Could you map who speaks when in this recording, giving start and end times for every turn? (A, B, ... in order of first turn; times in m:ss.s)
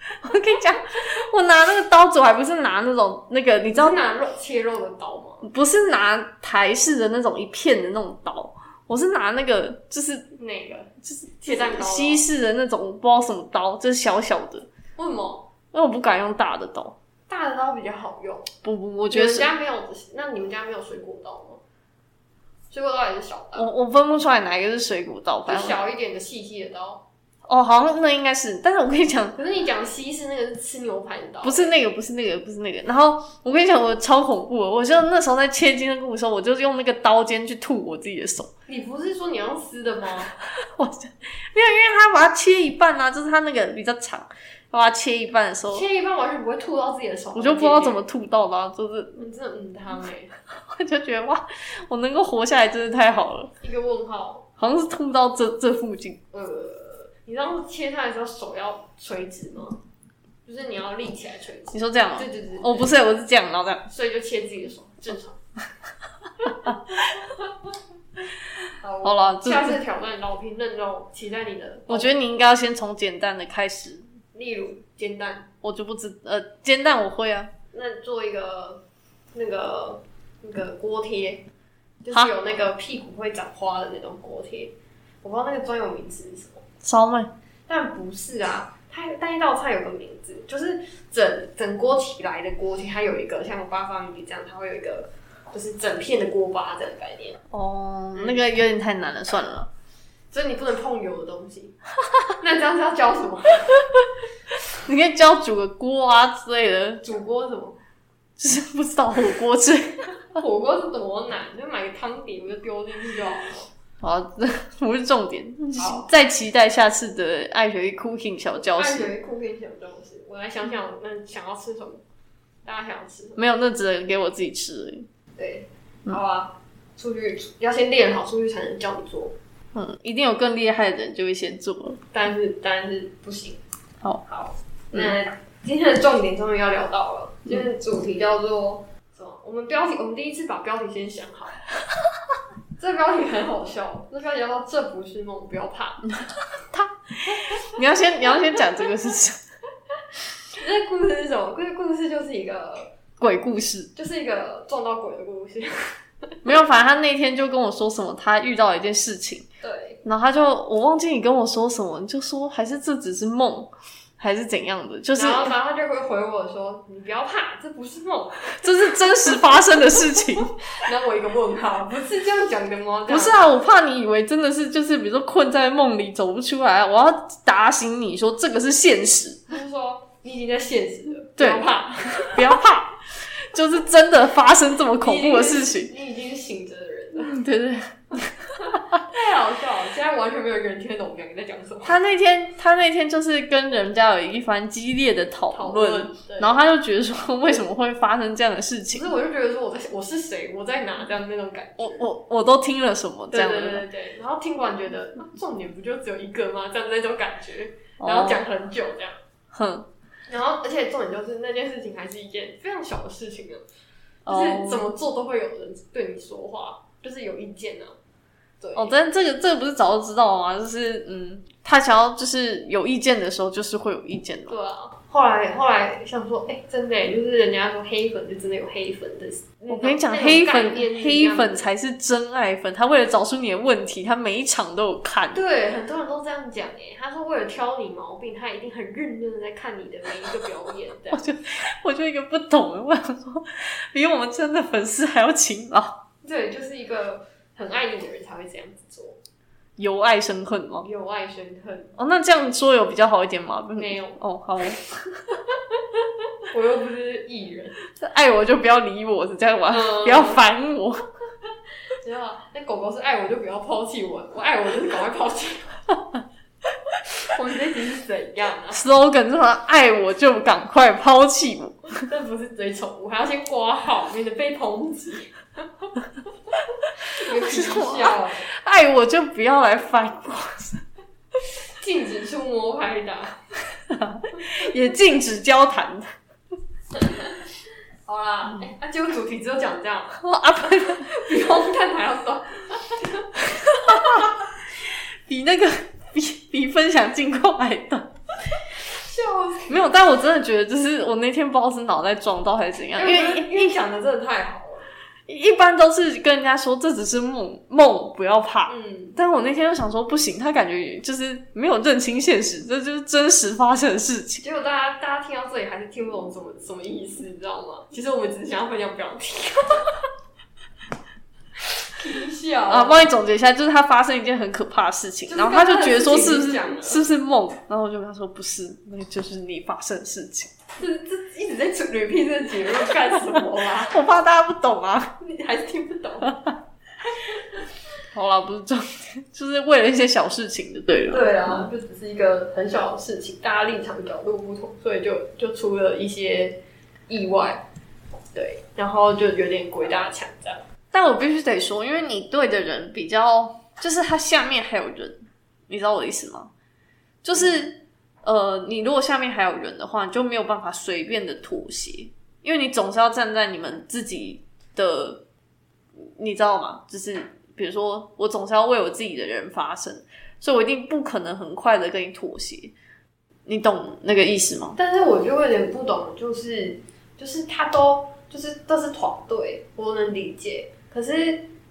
0:00.2-0:04.0 A
0:03.7-0:05.5 B
0:05.4-0:10.3 A
0:10.4-0:12.2 B
0:11.0-0:14.7 A
0:15.0-0:15.5 B
0:15.7-0:17.0 A
0:17.3-0:18.5 B
0:18.6-0:19.5 A
0:19.1-0:21.6 B
0:22.7-0:23.7 B
0:23.6-0:25.8 A
0:25.5-0:27.0 B
0:27.5-0:29.4 A
0:29.4-0:31.7 B
0:31.4-0:38.5 A
0:38.7-0:40.3 B
0:40.4-0:45.9 A
0:45.7-0:48.0 B
0:47.3-0:49.2 A
0:49.2-0:50.3 B
0:50.6-0:53.5 A
0:53.6-0:54.5 B
0:54.6-0:56.2 A
0:56.3-0:59.8 B
1:00.5-1:02.9 B
1:01.7-1:03.9 A
1:03.9-1:05.4 B
1:08.8-1:12.2 B
1:09.0-1:09.8 A
1:11.9-1:14.0 A
1:14.3-1:15.5 B
1:15.6-1:17.5 A
1:17.7-1:18.8 B
1:19.3-1:21.4 B
1:22.0-1:26.6 B
1:26.8-1:27.3 A
1:27.7-1:37.4 B
1:37.5-1:39.7 A
1:38.2-1:38.4 B
1:40.3-1:41.8 B
1:42.4-1:43.9 B
1:44.8-1:47.0 A
1:47.0-1:47.8 B
1:48.4-1:50.1 A
1:50.3-1:53.7 B
1:54.0-1:59.1 A
1:55.8-1:56.1 B
1:58.8-2:02.0 B
2:02.6-2:03.4 B
2:03.4-2:05.1 A
2:05.4-2:09.3 B
2:09.7-2:12.0 A
2:12.1-2:13.6 B
2:14.3-2:21.6 B
2:22.8-2:26.1 B
2:26.7-2:29.4 A
2:27.3-2:27.7 B
2:30.5-2:32.9 B
2:33.2-2:33.9 A
2:34.0-2:36.4 B
2:36.4-2:39.5 A
2:39.6-2:40.0 B
2:40.0-2:45.5 A
2:45.2-2:49.1 B
2:48.6-2:50.5 A
2:50.7-2:53.4 B
2:53.1-2:59.5 A
2:59.5-3:02.6 B
3:01.4-3:01.7 A
3:02.2-3:05.9 A
3:05.0-3:07.4 B
3:07.2-3:09.0 A
3:08.6-3:12.0 B
3:11.8-3:19.1 A
3:15.5-3:16.6 B
3:18.9-3:22.0 B
3:21.8-3:23.8 A
3:23.3-3:29.2 B
3:28.0-3:28.4 A
3:29.5-3:29.9 A
3:30.3-3:33.6 B
3:34.3-3:34.9 A
3:34.3-3:38.0 B
3:38.6-3:39.0 B
3:38.8-3:44.6 A
3:44.5-3:51.6 B
3:49.7-3:55.4 A
3:55.3-4:01.2 B
4:01.1-4:06.0 A
4:06.2-4:09.2 B
4:09.8-4:10.9 A
4:10.8-4:12.0 B
4:12.0-4:15.4 A
4:13.8-4:14.2 B
4:16.5-4:17.8 B
4:17.9-4:21.0 A
4:19.7-4:20.4 B
4:21.9-4:25.8 B
4:27.3-4:28.8 B
4:28.7-4:31.9 A
4:32.0-4:35.9 B
4:37.0-4:38.5 B
4:37.2-4:40.8 A
4:41.8-4:43.4 B
4:43.9-4:46.1 A
4:47.0-4:47.4 B
4:48.1-4:53.3 B
4:50.2-4:51.1 A
4:53.6-4:58.1 A
4:53.9-4:54.3 B
4:59.0-4:59.9 B
4:59.7-5:03.8 A
5:03.0-5:04.9 B
5:05.3-5:14.4 A
5:08.7-5:09.2 B
5:14.4-5:20.0 B
5:21.9-5:23.1 B
5:22.7-5:30.5 A
5:25.3-5:27.0 B
5:30.8-5:34.0 B
5:33.8-5:35.2 A
5:35.2-5:36.4 B
5:38.1-5:41.7 A
5:41.1-5:46.6 B
5:47.1-5:47.6 B
5:48.4-5:50.6 B
5:50.9-5:56.5 A
5:57.2-6:05.2 A
6:06.0-6:12.7 A
6:13.5-6:14.8 A
6:14.8-6:21.5 B